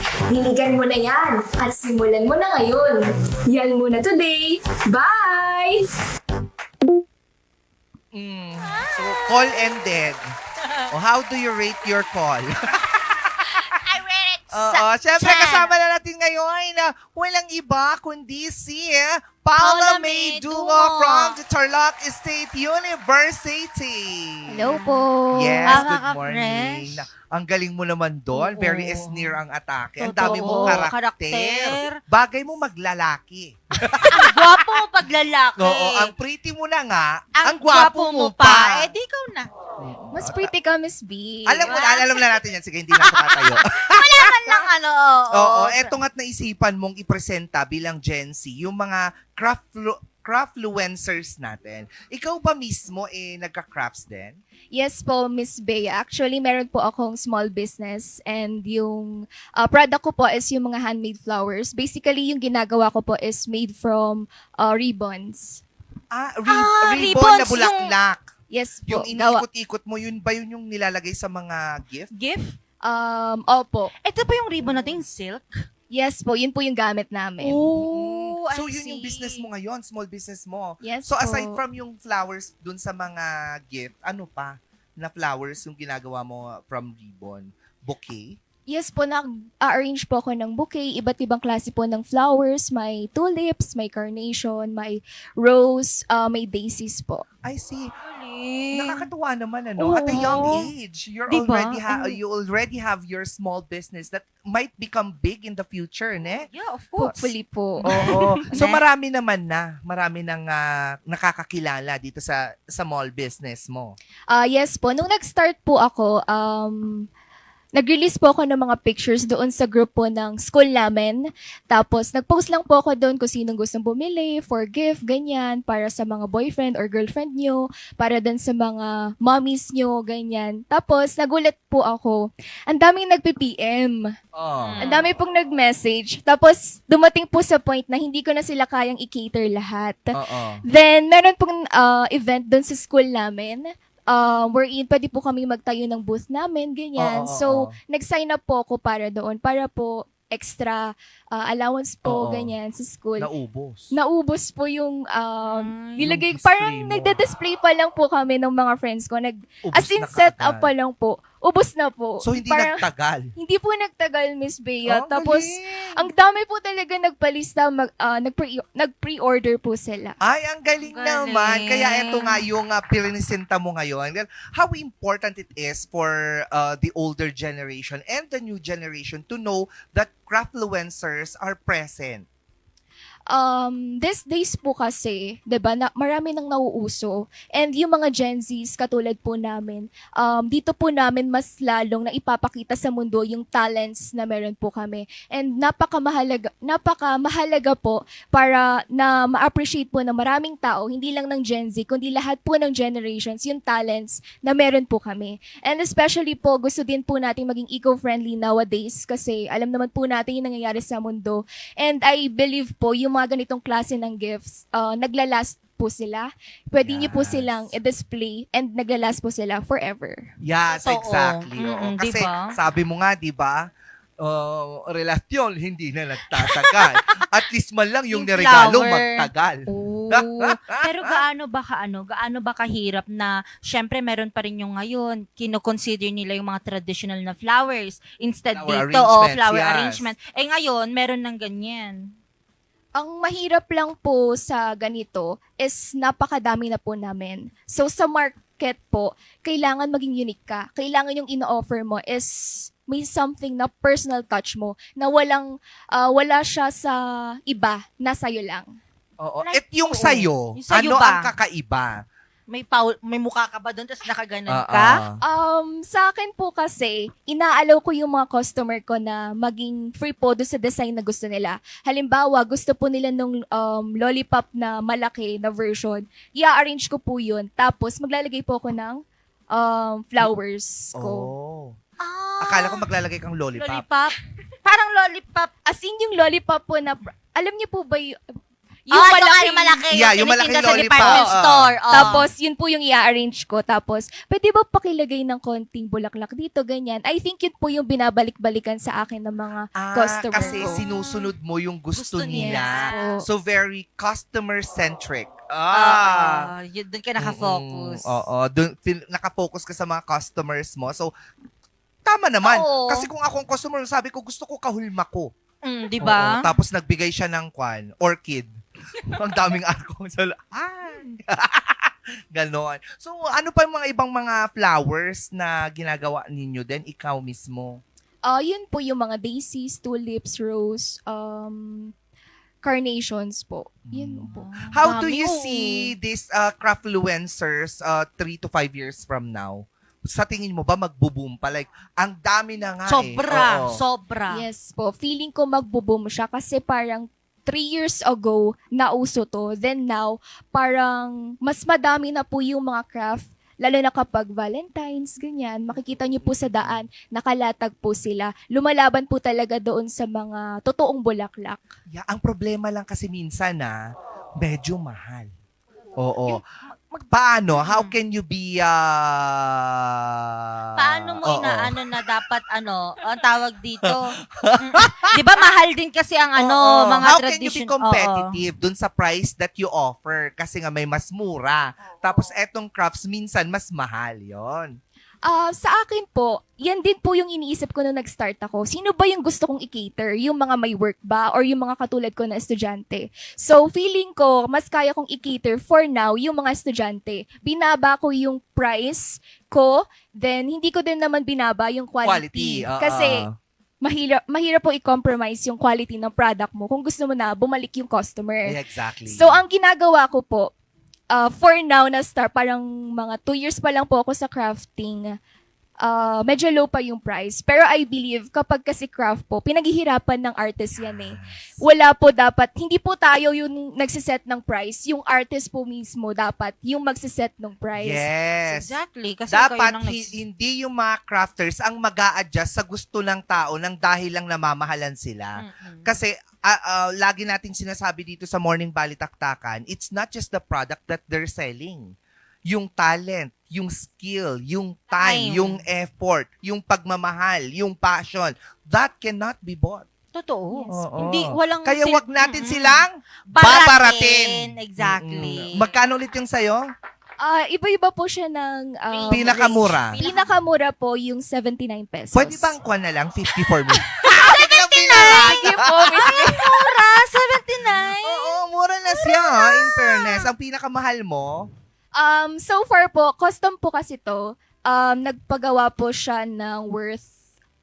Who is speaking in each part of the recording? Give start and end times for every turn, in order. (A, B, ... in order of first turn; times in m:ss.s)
0:00.3-0:05.9 A
0:08.1-0:10.2 B
0:08.8-0:09.6 C
0:10.9-0:13.6 B
0:13.7-0:15.7 C
0:14.5-0:24.7 B
0:19.6-0:21.4 C
0:24.5-0:25.9 D
0:25.3-0:34.6 B
0:25.7-0:27.0 C
0:28.3-0:29.4 C
0:30.0-0:31.9 C
0:33.9-0:36.1 C
0:35.6-0:38.9 B
0:37.4-0:39.5 C
0:39.8-0:40.5 B
0:40.1-0:41.7 D
0:41.4-0:44.6 B
0:41.6-0:42.3 C
0:43.0-0:46.0 C
0:45.3-0:54.4 B
0:54.7-1:05.6 D
1:06.1-1:08.3 B
1:06.5-1:07.9 C
1:08.5-1:09.4 D
1:08.9-1:12.1 B
1:12.1-1:12.5 C
1:12.8-1:13.9 D
1:14.0-1:15.5 C
1:15.9-1:17.6 D
1:17.4-1:19.5 C
1:17.7-1:28.4 B
1:20.8-1:21.6 D
1:28.7-1:37.2 D
1:37.4-1:37.9 B
1:38.0-1:39.0 C
1:38.7-1:46.4 B
1:39.8-1:40.7 C
1:41.3-1:42.2 C
1:46.4-1:47.3 C
1:47.0-1:48.4 D
1:47.8-1:48.8 C
1:47.9-1:53.9 B
1:54.3-1:57.0 D
1:57.8-2:01.2 D
2:01.7-2:14.0 D
2:14.4-2:14.8 B
2:14.7-2:15.1 C
2:14.8-2:20.1 D
2:20.1-2:20.6 B
2:20.6-2:33.3 D
2:27.0-2:27.7 B
2:32.0-2:32.5 B
2:33.2-2:33.9 B
2:33.9-2:42.8 D
2:35.4-2:36.0 C
2:36.0-2:37.2 B
2:39.6-2:40.7 B
2:42.2-2:43.3 B
2:43.4-2:50.2 D
2:44.9-2:46.1 B
2:50.2-3:02.2 B
2:50.8-2:52.4 C
3:03.3-3:40.2 D
3:36.8-3:37.7 B
3:40.4-3:43.6 B
3:40.7-3:42.5 C
3:44.2-3:51.2 B
3:46.4-3:47.0 C
3:48.1-4:02.1 C
3:58.5-4:00.1 B
4:03.0-4:18.6 D
4:19.2-4:22.0 B
4:19.4-4:21.3 C
4:22.5-4:25.0 C
4:24.5-4:25.2 B
4:25.2-4:39.0 D
4:39.5-4:41.3 D
4:40.9-4:41.8 B
4:42.0-4:42.9 C
4:42.4-4:43.8 B
4:43.6-4:45.5 C
4:45.7-4:48.4 D
4:48.9-4:49.8 D
4:48.9-4:52.3 C
4:49.9-4:52.2 B
4:50.8-4:51.2 D
4:51.9-5:00.8 D
4:59.8-5:06.5 B
5:00.4-5:01.3 C
5:01.9-5:03.2 C
5:02.4-5:03.3 D
5:05.7-5:08.3 C
5:07.2-5:11.1 B
5:12.0-5:15.3 B
5:12.4-5:13.1 C
5:15.6-5:16.4 C
5:16.0-5:18.5 B
5:19.1-5:27.8 B
5:28.3-5:31.9 D
5:32.6-5:34.5 D
5:33.9-5:43.8 B
5:34.3-5:35.9 C
5:42.8-5:44.4 C
5:44.3-6:01.7 D
5:56.2-5:56.8 B
6:01.9-6:03.8 B
6:04.4-6:05.3 B
6:06.0-6:06.4 B
6:06.2-6:07.9 C
6:07.1-6:11.7 B
6:10.8-6:18.3 C
6:14.4-6:15.1 B
6:16.4-6:24.7 B
6:25.2-6:43.2 D
6:42.0-6:43.3 B
6:43.8-6:50.5 D
6:48.4-6:49.4 B
6:51.1-6:55.0 D
6:55.8-7:08.0 D
7:00.8-7:01.3 B
7:07.8-7:08.7 B
7:08.5-7:10.1 C
7:09.3-7:21.9 B
7:15.4-7:15.9 C
7:22.5-7:29.8 B
7:24.9-7:25.6 C
7:30.1-7:35.7 C
7:30.6-7:30.8 D
7:30.7-7:36.6 B
7:37.2-7:42.6 D
7:38.9-7:40.3 C
7:39.1-7:40.0 B
7:42.1-7:46.4 B
7:44.0-7:45.4 C
7:45.0-7:46.6 D
7:46.0-7:48.3 C
7:48.0-7:51.5 B
7:48.9-7:50.2 C
7:52.0-7:57.1 D